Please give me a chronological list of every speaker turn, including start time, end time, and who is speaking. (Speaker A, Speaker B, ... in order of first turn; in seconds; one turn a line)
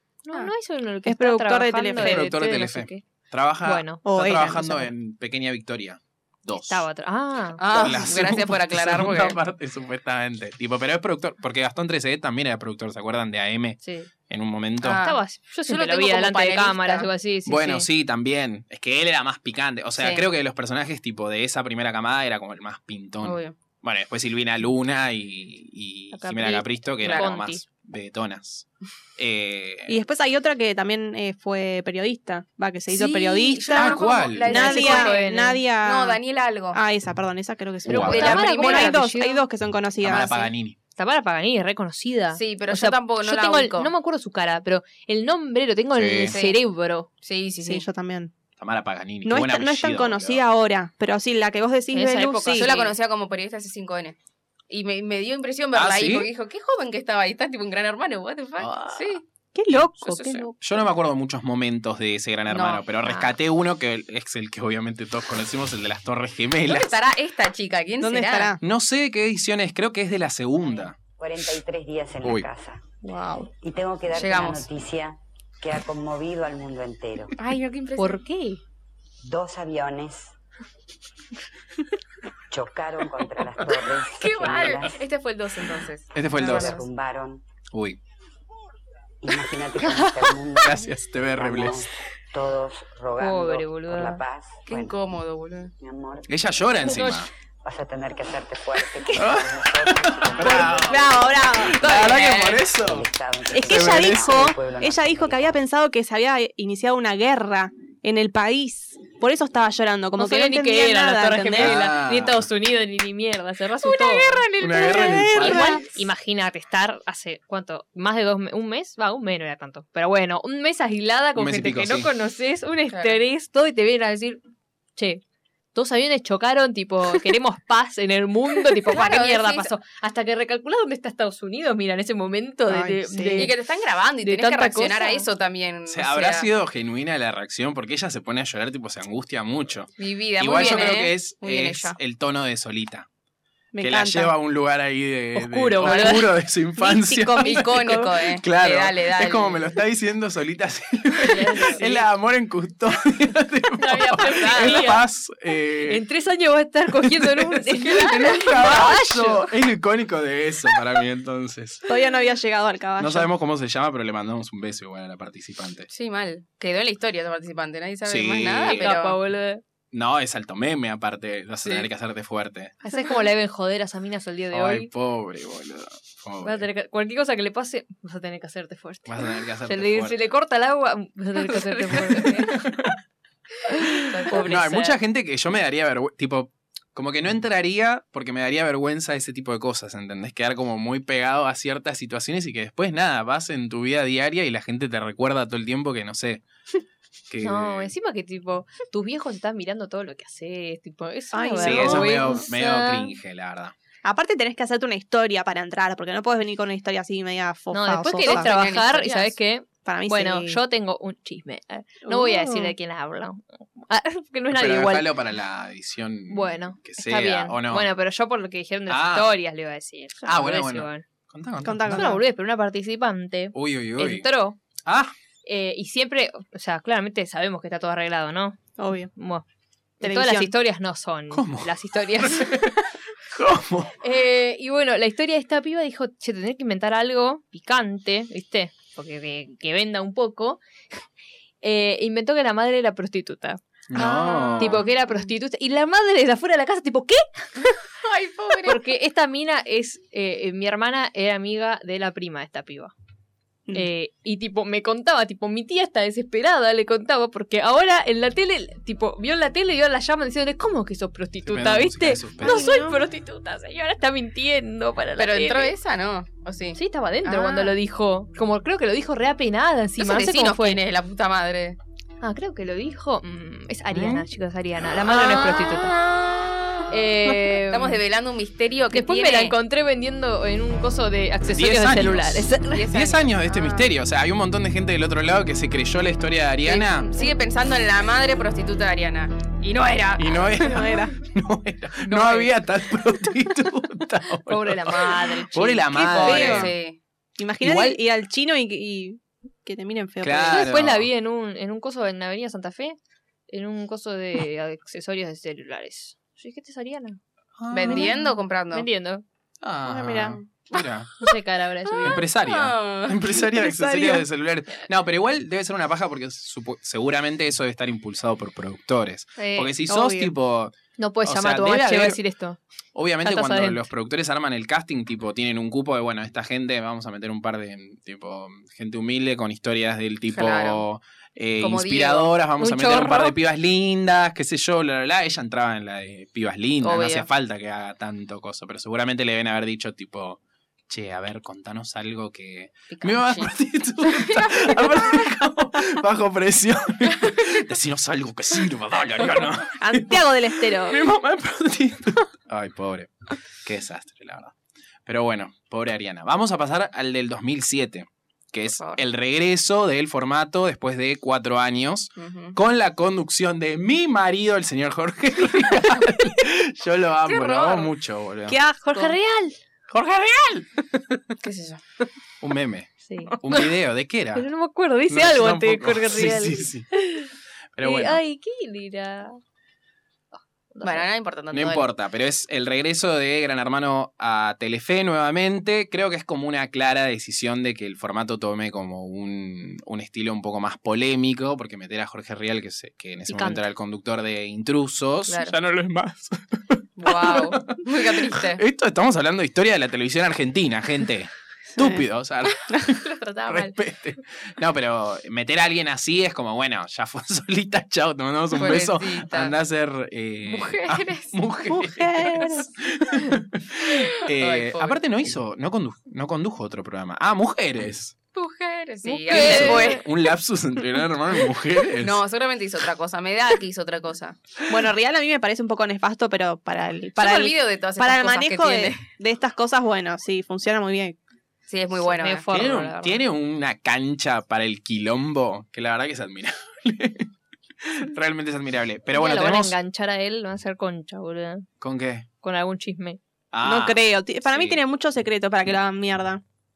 Speaker A: 0.2-3.0
Speaker B: 1.1-2.3
Speaker C: 2.0-6.8
Speaker A: 3.6-4.0
Speaker B: 4.0-4.9
Speaker A: 6.6-7.6
Speaker D: 7.6-9.4
Speaker C: 7.7-15.0
Speaker A: 13.8-14.1
Speaker D: 14.8-17.1
Speaker A: 14.9-17.9
Speaker C: 17.5-30.0
Speaker D: 20.0-20.2
Speaker D: 23.2-23.6
Speaker A: 26.1-27.6
Speaker D: 27.0-27.3
Speaker B: 29.9-36.2
Speaker D: 32.9-36.8
Speaker C: 33.8-34.9
Speaker A: 34.5-35.6
Speaker B: 36.7-40.4
Speaker C: 37.9-38.5
Speaker D: 38.0-39.1
Speaker A: 38.1-39.5
Speaker C: 40.0-40.8
Speaker A: 41.0-47.1
Speaker D: 42.3-43.9
Speaker C: 45.9-46.4
Speaker D: 46.3-46.6
Speaker D: 47.2-47.9
Speaker B: 47.6-48.3
Speaker C: 48.6-50.4
Speaker B: 49.2-52.7
Speaker A: 51.9-53.0
Speaker D: 52.5-54.2
Speaker D: 54.7-59.2
Speaker C: 55.7-56.3
Speaker C: 58.6-59.2
Speaker B: 59.5-60.9
Speaker D: 60.0-60.5
Speaker C: 60.6-67.0
Speaker D: 62.5-62.9
Speaker A: 63.0-63.4
Speaker D: 66.7-68.6
Speaker B: 68.0-68.6
Speaker C: 68.6-71.0
Speaker E: 71.2-72.9
Speaker B: 73.0-73.5
Speaker E: 73.5-77.3
Speaker D: 74.1-74.7
Speaker D: 77.4-78.2
Speaker A: 78.0-78.6
Speaker E: 79.2-80.4
Speaker E: 82.5-85.0
Speaker D: 84.2-86.8
Speaker C: 86.1-86.8
Speaker E: 86.3-87.4
Speaker C: 87.7-88.0
Speaker E: 89.2-95.0
Speaker C: 90.6-91.8
Speaker A: 93.2-94.2
Speaker D: 94.7-95.7
Speaker E: 95.8-96.3
Speaker C: 96.3-97.3
Speaker E: 97.6-105.6
Speaker C: 99.2-103.1
Speaker B: 100.4-102.1
Speaker D: 102.2-102.6
Speaker B: 103.5-111.8
Speaker C: 103.6-104.5
Speaker A: 110.2-124.4
Speaker C: 111.6-112.4
Speaker B: 113.8-115.9
Speaker C: 114.6-115.8
Speaker C: 121.4-122.1
Speaker D: 122.9-123.2
Speaker A: 125.0-125.2
Speaker A: 125.7-133.6
Speaker D: 128.9-129.7
Speaker B: 132.7-133.5
Speaker D: 133.4-136.5
Speaker A: 134.2-135.3
Speaker C: 135.9-143.1
Speaker D: 140.0-142.0
Speaker A: 140.6-140.9
Speaker B: 143.7-144.3
Speaker C: 143.8-156.0
Speaker A: 145.3-146.3
Speaker B: 146.8-148.1
Speaker D: 147.4-149.7
Speaker A: 151.2-152.0
Speaker A: 153.8-155.0
Speaker A: 155.9-159.5
Speaker C: 157.0-161.9
Speaker B: 161.9-163.3
Speaker C: 163.0-165.9
Speaker D: 165.9-169.2
Speaker C: 168.1-168.9
Speaker A: 168.7-169.6
Speaker C: 169.9-172.7
Speaker A: 172.8-174.9
Speaker C: 174.5-176.7
Speaker A: 176.4-182.6
Speaker C: 179.1-180.3
Speaker D: 181.9-182.4
Speaker C: 182.5-182.9
Speaker A: 183.7-185.0
Speaker D: 184.1-184.6
Speaker C: 184.4-196.4
Speaker C: 197.3-197.9
Speaker A: 197.4-203.1
Speaker B: 201.3-202.5
Speaker C: 201.6-203.7
Speaker B: 204.0-208.5
Speaker A: 207.7-215.1
Speaker D: 208.2-209.3
Speaker B: 209.8-210.6
Speaker B: 212.0-212.7
Speaker C: 214.5-217.9
Speaker A: 216.3-221.0
Speaker C: 218.9-219.3
Speaker C: 220.2-222.1
Speaker B: 221.6-222.2
Speaker A: 221.9-224.6
Speaker C: 223.5-224.3
Speaker C: 224.8-225.1
Speaker A: 225.5-228.6
Speaker B: 228.8-229.1
Speaker A: 229.2-229.4
Speaker A: 230.0-232.8
Speaker B: 230.0-230.5
Speaker C: 231.3-231.7
Speaker C: 232.2-232.7
Speaker C: 233.3-233.9
Speaker A: 234.0-240.6
Speaker A: 241.6-243.6
Speaker C: 243.9-244.8
Speaker B: 243.9-244.7
Speaker A: 244.6-247.8
Speaker D: 248.0-248.8
Speaker A: 248.6-252.9
Speaker A: 253.7-265.8
Speaker C: 261.4-262.7
Speaker B: 262.4-263.0
Speaker D: 265.2-267.7
Speaker A: 266.8-270.8
Speaker D: 270.0-271.8
Speaker A: 272.2-275.9
Speaker C: 273.9-274.2
Speaker A: 276.9-278.0
Speaker D: 277.7-279.6
Speaker A: 278.9-282.9
Speaker C: 281.5-287.1
Speaker D: 282.7-283.8
Speaker D: 286.6-290.6
Speaker C: 290.2-296.7
Speaker B: 290.6-291.2
Speaker D: 292.1-292.5
Speaker A: 294.5-296.4
Speaker B: 295.9-296.7
Speaker D: 296.2-297.0
Speaker B: 297.4-300.7
Speaker C: 297.6-298.0
Speaker C: 300.2-301.1
Speaker A: 300.5-303.0
Speaker A: 303.5-307.2
Speaker C: 307.6-308.1
Speaker D: 307.7-308.9
Speaker B: 307.9-308.2
Speaker A: 308.7-309.2
Speaker C: 309.6-311.1
Speaker B: 309.9-310.4
Speaker A: 311.2-312.2
Speaker D: 312.0-313.2
Speaker C: 312.0-322.2
Speaker B: 313.4-314.3
Speaker A: 319.4-319.7
Speaker B: 319.9-320.3
Speaker A: 321.0-322.6
Speaker C: 322.9-354.5
Speaker A: 323.2-323.9
Speaker D: 330.3-330.8
Speaker D: 331.6-332.4
Speaker A: 332.6-333.4
Speaker D: 336.8-337.3
Speaker D: 342.9-345.3
Speaker B: 349.8-351.0
Speaker C: 355.1-368.6
Speaker D: 358.8-359.0
Speaker D: 362.2-362.6
Speaker D: 367.2-367.9
Speaker A: 368.5-369.6
Speaker C: 369.9-370.8
Speaker D: 371.4-371.8
Speaker C: 372.4-374.5
Speaker A: 373.1-373.7
Speaker A: 374.4-377.3
Speaker C: 375.1-376.9
Speaker C: 377.8-378.2
Speaker A: 377.8-379.4
Speaker A: 380.3-381.1
Speaker D: 380.8-381.9
Speaker C: 381.5-418.1
Speaker A: 393.3-393.6
Speaker D: 395.3-395.6
Speaker D: 397.0-398.6
Speaker B: 401.8-402.0
Speaker D: 403.2-403.5
Speaker D: 408.5-409.6
Speaker D: 410.5-411.3
Speaker B: 411.7-412.7
Speaker D: 414.4-415.0
Speaker D: 418.3-420.1
Speaker A: 419.0-420.0
Speaker C: 419.3-422.2
Speaker D: 422.0-424.4
Speaker B: 424.7-431.2
Speaker D: 427.2-429.0
Speaker D: 431.7-432.5
Speaker A: 432.0-433.2
Speaker C: 432.5-437.3
Speaker C: 437.8-439.8
Speaker A: 439.1-441.7
Speaker C: 441.8-442.3
Speaker A: 442.4-443.2
Speaker C: 443.5-444.8
Speaker B: 443.6-446.4